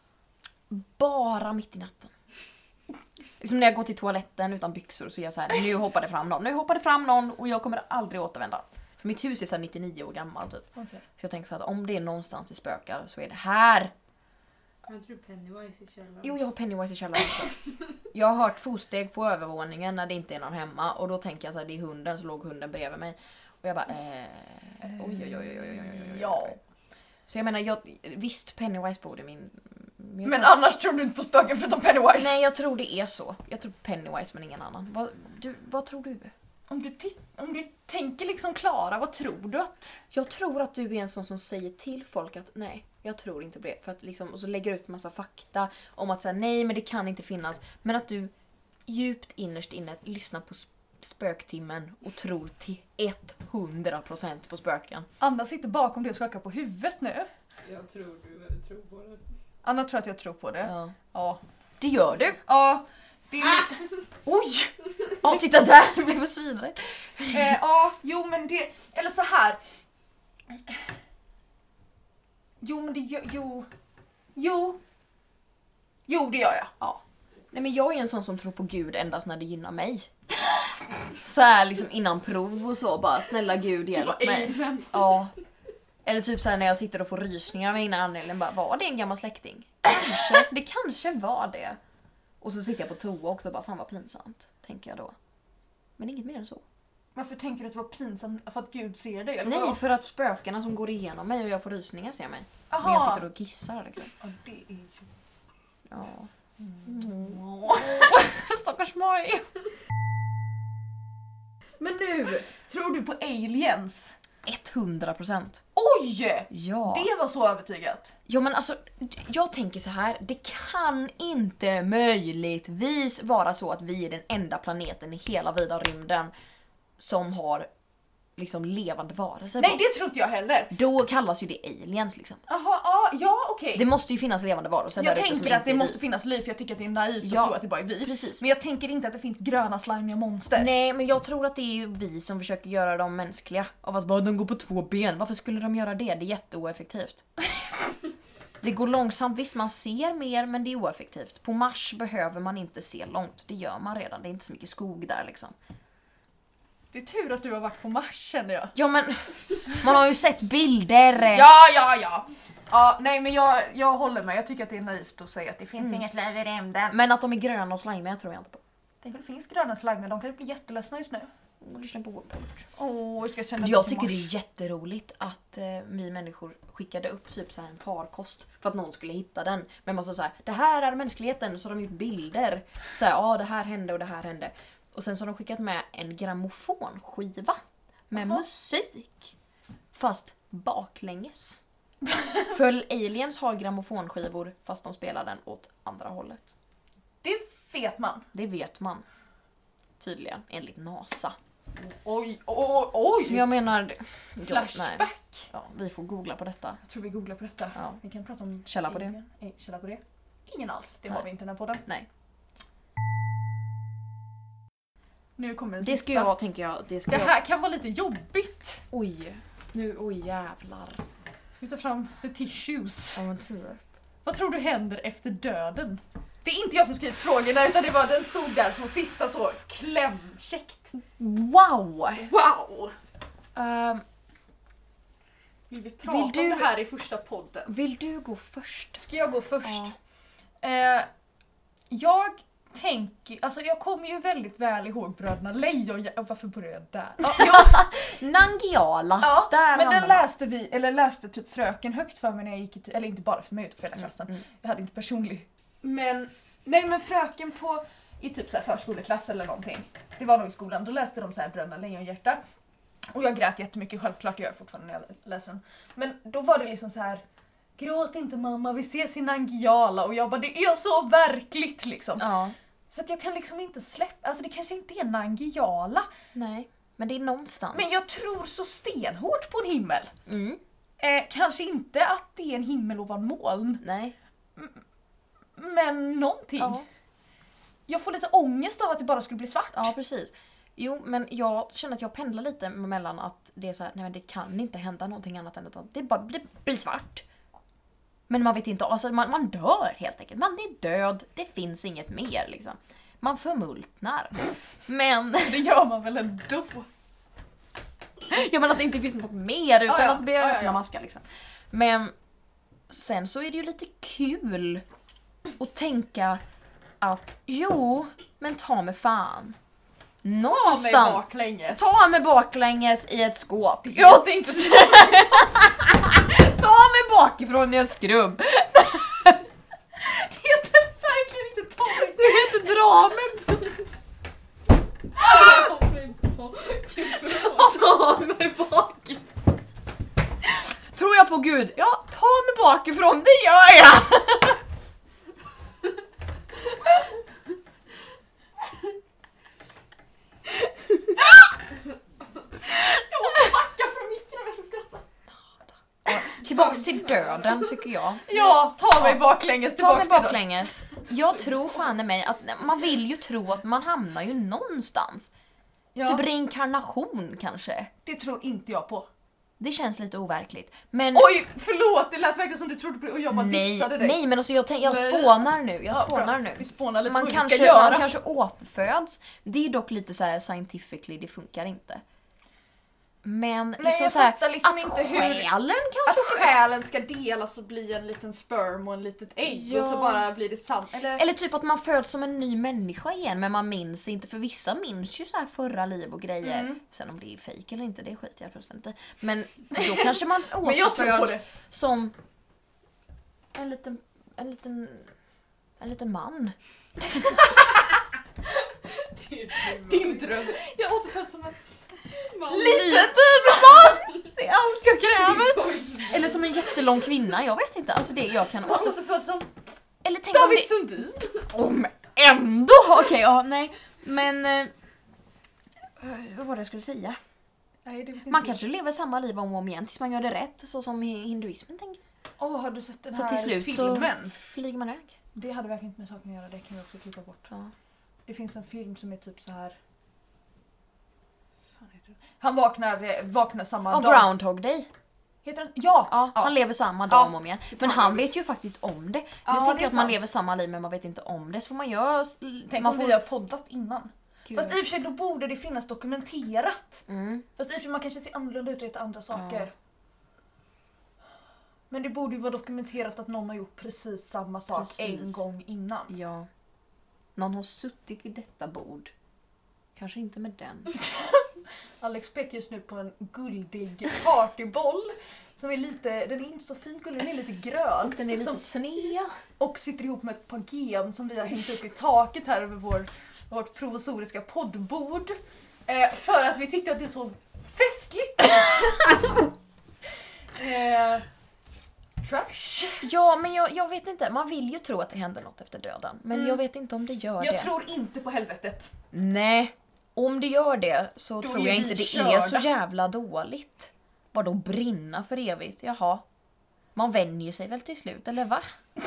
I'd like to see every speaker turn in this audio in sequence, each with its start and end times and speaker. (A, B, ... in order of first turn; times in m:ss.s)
0:00.7-0:02.1 A
0:03.4-0:13.9 A
0:10.8-0:11.0 B
0:14.8-0:16.4 C
0:16.2-0:26.6 A
0:24.8-0:26.6 B
0:27.3-0:30.5 A
0:30.2-0:32.4 B
0:32.1-0:36.3 A
0:36.7-0:40.0 B
0:40.1-0:48.3 A
0:48.9-0:55.1 A
0:55.2-0:57.3 B
0:57.6-0:59.2 C
0:59.6-1:01.4 B
1:00.6-1:00.9 A
1:01.8-1:02.4 A
1:02.4-1:05.4 B
1:05.2-1:07.5 A
1:07.3-1:09.6 B
1:12.6-1:13.7 B
1:14.3-1:14.8 B
1:16.1-1:16.7 B
1:16.8-1:20.1 A
1:21.2-1:25.3 A
1:23.9-1:25.0 B
1:26.0-1:31.8 A
1:32.4-1:35.1 A
1:36.0-1:36.6 A
1:37.1-1:39.8 B
1:39.4-1:44.1 A
1:42.7-1:43.2 B
1:44.2-1:45.1 B
1:45.9-1:46.3 A
1:46.6-1:48.3 B
1:46.8-1:49.5 A
1:51.8-1:54.1 B
1:54.4-1:55.6 A
1:55.7-1:58.1 B
1:56.5-1:57.1 A
1:58.3-2:06.3 A
2:07.0-2:07.7 A
2:08.4-2:09.8 A
2:09.6-2:10.7 B
2:10.7-2:12.4 A
2:12.5-2:13.8 B
2:13.7-2:16.0 A
2:15.0-2:20.7 B
2:17.2-2:18.4 A
2:20.5-2:27.2 A
2:28.6-2:35.5 A
2:36.9-2:38.7 B
2:38.7-2:41.5 A
2:41.3-2:47.0 B
2:46.9-2:48.6 A
2:49.0-2:51.3 B
2:51.6-2:52.7 A
2:52.8-2:54.3 B
2:53.6-3:09.3 A
3:08.1-3:08.4 B
3:09.9-3:11.6 A
3:12.4-3:16.5 A
3:17.2-3:18.3 B
3:18.3-3:19.0 A
3:20.0-3:21.4 A
3:21.7-3:23.5 B
3:23.1-3:26.8 A
3:24.4-3:25.5 B
3:26.8-3:31.8 B
3:28.6-3:29.2 A
3:35.4-3:36.3 B
3:35.8-3:37.3 A
3:37.1-3:38.8 B
3:38.9-3:41.0 A
3:41.6-3:43.2 B
3:43.1-3:43.8 A
3:44.2-3:50.9 B
3:51.2-3:52.3 A
3:52.2-3:53.0 B
3:53.5-3:54.0 A
3:55.7-3:57.7 B
3:56.0-3:56.7 A
3:57.7-3:59.0 A
3:59.0-3:59.9 B
3:59.6-3:59.9 A
4:00.6-4:01.1 B
4:01.9-4:07.8 B
4:07.2-4:10.2 A
4:09.2-4:22.4 B
4:23.1-4:27.2 B
4:27.8-4:32.3 B
4:32.2-4:32.5 A
4:32.9-4:36.1 B
4:36.3-4:38.0 A
4:37.7-4:40.1 B
4:40.3-4:40.6 A
4:41.0-4:43.8 B
4:43.8-4:44.1 A
4:44.6-4:44.8 B
4:45.5-4:46.8 B
4:46.6-4:46.8 A
4:47.9-4:49.9 B
4:49.7-4:57.2 A
4:58.3-5:05.6 A
5:05.4-5:06.9 B
5:08.3-5:12.1 A
5:09.8-5:10.8 B
5:12.9-5:14.8 A
5:15.6-5:16.4 A
5:17.0-5:19.6 A
5:20.2-5:29.4 A
5:20.4-5:21.9 B
5:23.8-5:25.7 B
5:30.0-5:32.6 B
5:32.0-5:33.7 A
5:35.2-5:37.8 C
5:37.2-5:39.2 A
5:40.9-5:44.6 A
5:52.6-5:55.0 B
5:56.0-6:05.3 A
5:58.3-6:00.4 B
6:05.9-6:06.2 B
6:06.0-6:07.9 A
6:08.0-6:09.1 B
6:09.6-6:11.3 A
6:11.1-6:14.2 B
6:13.3-6:22.0 A
6:14.8-6:18.1 B
6:23.2-6:26.5 A
6:23.8-6:25.5 B
6:26.0-6:31.2 B
6:29.5-6:30.3 A
6:31.2-6:42.1 A
6:36.4-6:36.8 B
6:39.7-6:41.4 B
6:43.5-6:45.1 A
6:45.8-6:47.6 A
6:48.7-6:50.6 C
6:49.7-6:51.6 B
6:52.4-6:59.0 A
6:52.4-6:54.0 B
6:55.2-6:56.4 C
6:58.6-6:59.5 B
7:00.0-7:04.7 A
7:00.3-7:01.2 B
7:06.0-7:07.2 A
7:07.8-7:08.6 B
7:08.3-7:12.0 A
7:12.4-7:14.3 B
7:13.1-7:15.1 A
7:15.3-7:17.5 B
7:18.2-7:19.8 B
7:21.8-7:24.3 B
7:23.9-7:24.9 A
7:25.4-7:26.5 B
7:26.1-7:33.2 A
7:27.1-7:28.3 B
7:29.4-7:30.2 B
7:32.7-7:37.0 B
7:34.5-7:34.8 A
7:37.1-7:37.4 A
7:37.6-7:39.7 B
7:39.3-7:39.7 A
7:41.9-7:46.1 B
7:44.7-7:45.4 A
7:46.1-7:46.5 A
7:47.4-7:49.1 A
7:50.0-7:51.0 A
7:51.1-7:51.4 B
7:52.0-7:58.6 B
7:58.0-7:59.4 A
7:59.6-8:09.3 B
8:10.5-8:11.2 B
8:12.2-8:13.1 B
8:13.0-8:17.7 A
8:16.3-8:16.6 B
8:17.4-8:18.9 B
8:19.1-8:26.2 A
8:21.4-8:22.7 B
8:26.9-8:28.7 A